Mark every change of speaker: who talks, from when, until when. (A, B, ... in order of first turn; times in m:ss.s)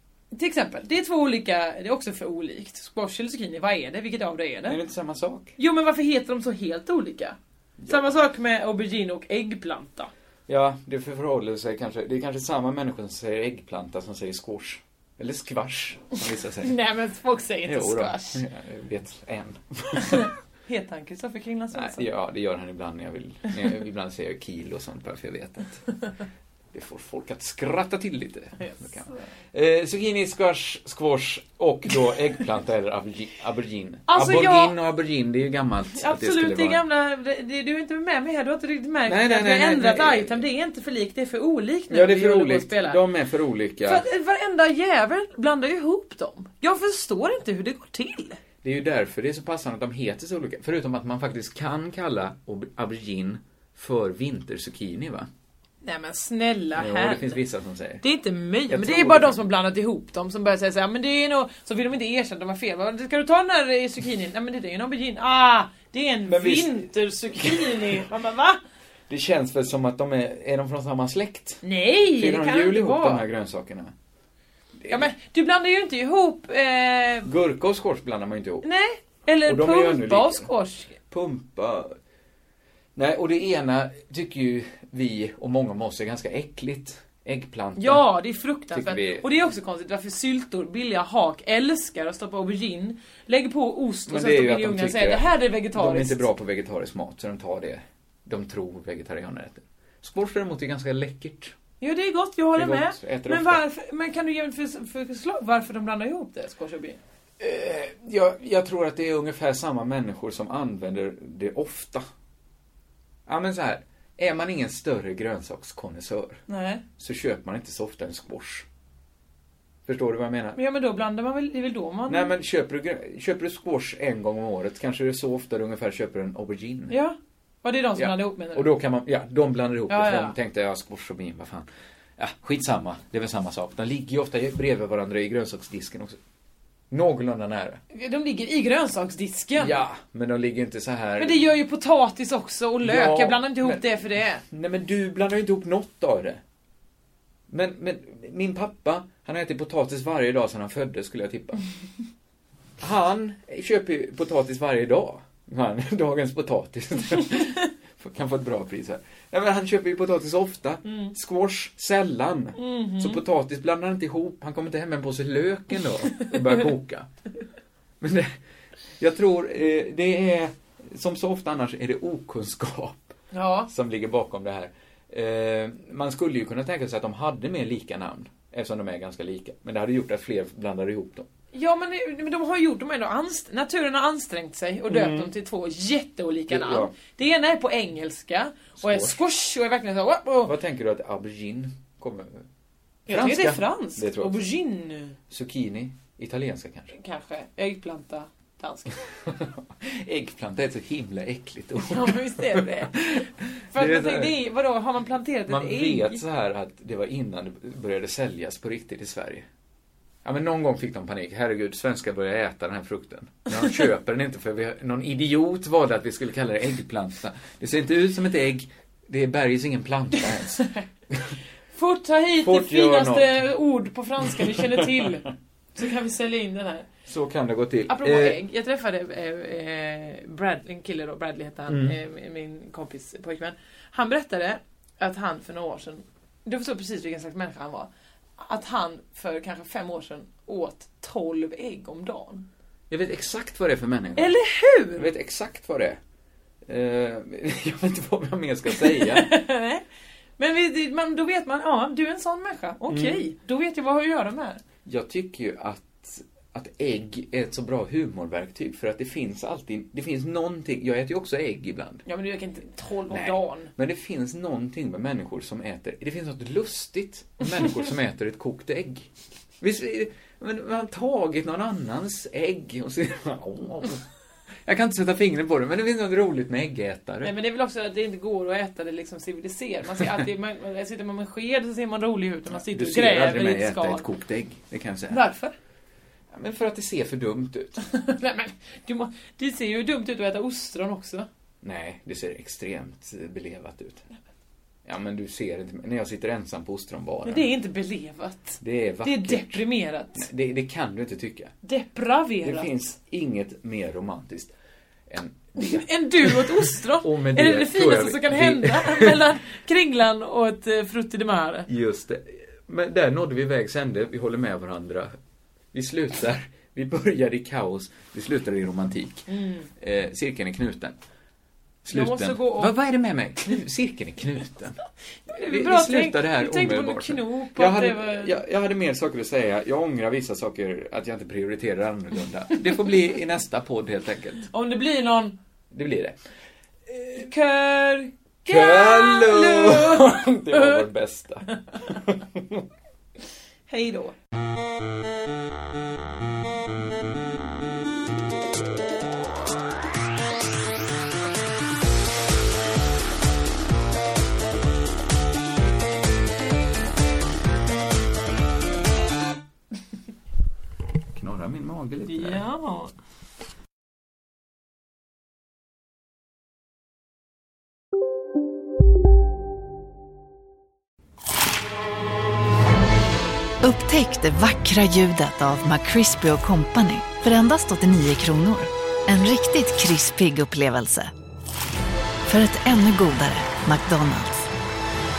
0:00.3-0:04.8 A
0:04.7-0:05.6 B
0:05.6-0:10.1 A
0:07.8-0:08.2 B
0:10.5-0:16.8 B
0:16.6-0:18.4 A
0:17.6-0:20.3 B
0:20.0-0:22.1 A
0:21.7-0:25.8 B
0:26.7-0:36.8 B
0:28.6-0:29.2 A
0:34.1-0:34.8 A
0:35.9-0:43.0 A
0:39.0-0:40.4 B
0:41.9-0:44.0 B
0:43.8-0:48.4 A
0:48.6-0:55.3 B
0:55.8-0:57.4 A
0:56.7-0:58.0 B
0:58.0-1:08.6 A
0:58.7-0:59.4 B
1:06.3-1:08.0 B
1:09.1-1:13.9 B
1:11.6-1:13.2 A
1:14.8-1:15.1 B
1:14.9-1:17.3 A
1:17.2-1:18.6 B
1:18.6-1:21.0 A
1:19.4-1:20.5 B
1:21.1-1:21.9 B
1:22.9-1:28.0 B
1:27.8-1:36.2 A
1:28.7-1:29.2 B
1:34.1-1:41.6 B
1:41.8-1:47.0 A
1:42.5-1:43.6 B
1:47.4-1:52.0 B
1:53.2-1:56.4 B
1:56.5-1:56.8 A
1:57.0-1:58.6 B
1:59.8-2:00.6 B
2:00.5-2:02.3 A
2:02.1-2:07.0 B
2:06.9-2:08.7 A
2:08.0-2:16.2 B
2:09.9-2:10.3 A
2:16.9-2:17.8 B
2:17.9-2:19.8 A
2:19.6-2:21.4 B
2:21.2-2:24.4 A
2:22.8-2:26.4 B
2:27.5-2:31.6 B
2:32.8-2:47.1 B
2:40.9-2:41.1 A
2:42.6-2:43.2 A
2:48.0-2:48.4 B
2:49.0-2:53.1 B
2:53.3-2:53.7 A
2:53.7-3:01.3 B
3:01.5-3:10.5 A
3:04.9-3:05.3 B
3:06.5-3:06.9 B
3:08.8-3:09.2 B
3:10.4-3:12.4 B
3:13.1-3:14.4 B
3:13.1-3:15.2 A
3:15.3-3:16.9 B
3:16.9-3:18.9 A
3:19.2-3:24.3 B
3:21.8-3:23.2 A
3:23.7-3:26.2 A
3:25.5-3:29.4 B
3:30.2-3:41.3 B
3:40.4-3:40.8 A
3:41.7-3:46.9 A
3:42.4-3:43.4 B
3:44.4-3:44.9 B
3:47.1-3:48.4 B
3:47.9-4:02.5 A
3:51.7-3:52.0 B
4:02.9-4:04.3 B
4:04.2-4:05.1 A
4:04.9-4:06.0 B
4:06.6-4:09.3 B
4:08.7-4:09.8 A
4:10.4-4:14.6 A
4:12.9-4:13.3 B
4:14.8-4:22.0 B
4:22.0-4:23.7 A
4:23.1-4:29.1 B
4:29.6-4:34.0 B
4:34.6-4:37.3 B
4:37.2-4:44.0 A
4:42.5-4:45.2 B
4:45.1-4:45.5 A
4:46.3-4:47.8 B
4:47.8-4:51.3 A
4:51.6-4:54.0 B
4:54.8-4:57.5 B
4:57.2-5:00.3 A
4:58.6-5:01.5 B
5:01.6-5:02.7 A
5:02.4-5:04.5 B
5:05.1-5:09.3 B
5:05.6-5:11.7 A
5:11.7-5:15.1 B
5:15.7-5:21.0 B
5:19.3-5:19.7 A
5:21.8-5:24.8 B
5:21.9-5:22.7 A
5:25.3-5:28.3 A
5:25.3-5:34.5 B
5:34.5-5:35.4 A
5:35.7-5:36.2 B
5:37.1-5:40.8 A
5:38.5-5:42.6 B
5:43.7-5:44.1 A
6:01.1-6:02.4 B
6:02.0-6:02.9 A
6:13.6-6:21.1 C
6:22.3-6:24.5 C